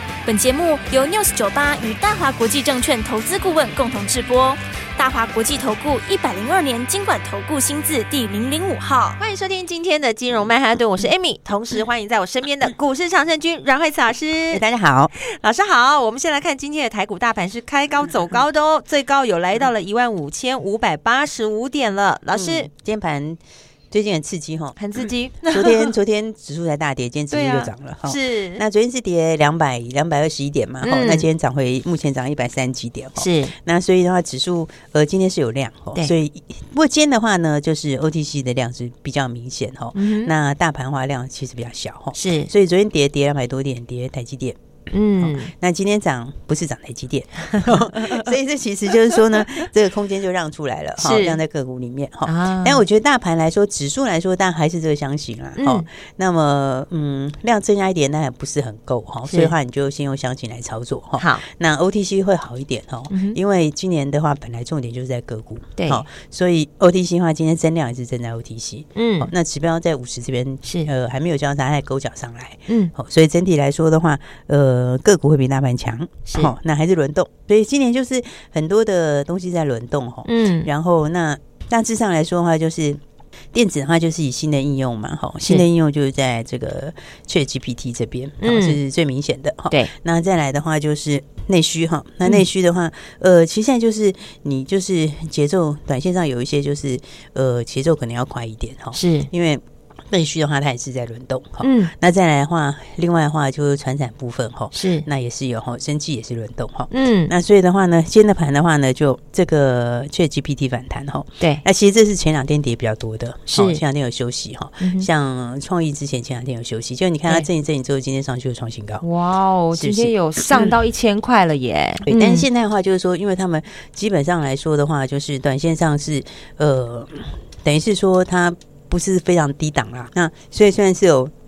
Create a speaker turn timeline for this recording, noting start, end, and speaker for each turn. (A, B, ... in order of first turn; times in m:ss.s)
0:00.2-0:09.2 A
0:09.2-0:14.6 B
0:14.5-0:15.1 C
0:15.2-0:22.7 B
0:22.3-0:24.8 C
0:24.8-0:26.0 B
0:25.4-0:44.6 C
0:27.3-0:28.6 B
0:30.8-0:31.3 B
0:33.2-0:33.5 B
0:39.9-0:40.3 B
0:42.1-0:42.5 B
0:44.9-0:45.5 B
0:45.2-1:23.0 C
0:47.5-0:48.3 B
0:49.2-0:49.6 B
0:51.0-0:51.4 B
0:52.2-0:52.8 B
0:55.6-0:55.8 B
0:59.3-0:59.5 B
1:01.2-1:01.4 B
1:03.1-1:03.4 B
1:05.8-1:06.0 B
1:09.0-1:09.3 B
1:10.6-1:10.9 B
1:12.7-1:12.9 B
1:16.3-1:16.5 B
1:20.2-1:20.7 B
1:23.5-1:59.0 C
1:28.4-1:28.8 B
1:38.9-1:39.3 B
1:41.6-1:41.9 B
1:44.7-1:45.0 B
1:46.9-1:47.3 B
1:53.5-1:53.8 B
1:54.8-1:55.1 B
1:59.0-2:02.4 B
1:59.7-2:00.8 C
2:02.0-2:11.3 C